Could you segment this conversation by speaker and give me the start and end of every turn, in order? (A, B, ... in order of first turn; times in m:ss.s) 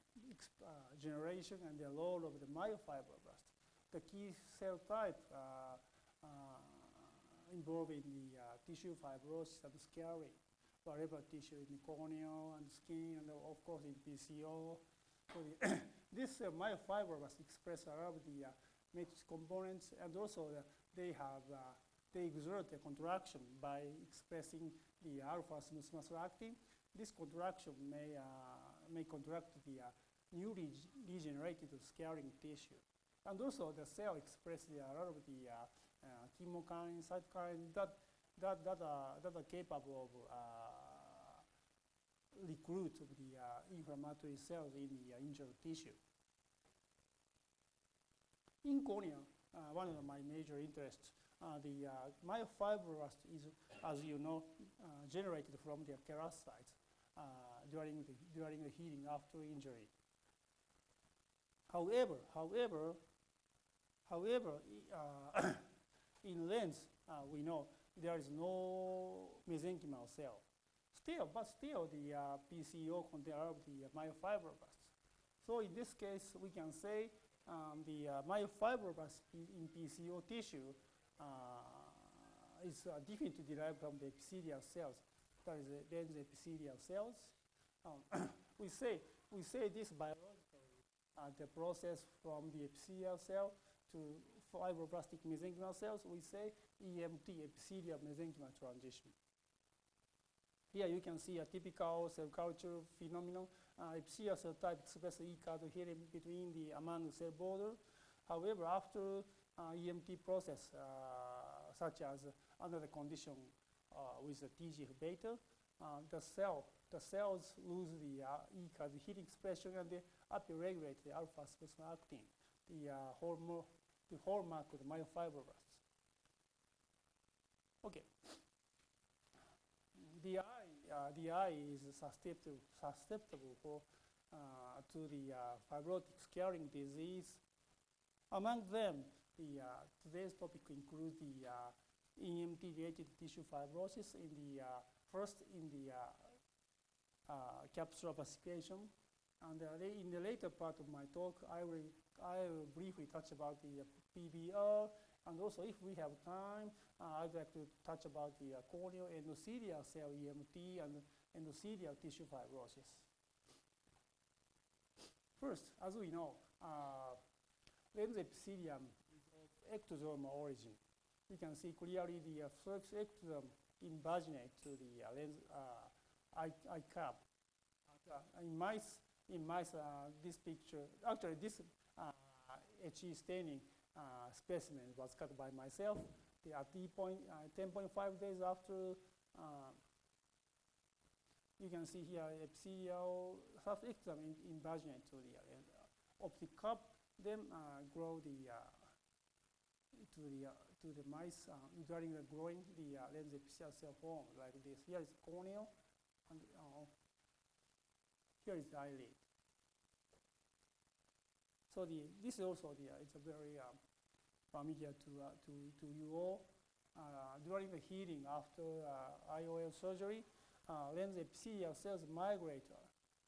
0:00.2-0:41.4 A
0:42.3-0:46.0 A
0:48.6-0:59.9 A
1:01.7-1:03.0 A
1:04.0-1:05.7 A
1:06.2-1:39.1 A
1:40.7-2:05.8 A
2:07.8-2:08.4 A
2:10.0-2:17.4 A
2:18.3-2:26.4 A
2:27.3-2:43.1 A
2:45.4-2:47.2 A
2:47.9-2:57.2 A
2:57.9-3:09.8 A
3:11.6-3:18.9 A
3:19.9-3:25.7 A
3:26.3-3:26.9 A
3:28.4-3:29.2 A
3:31.7-3:33.8 A
3:34.5-3:42.9 A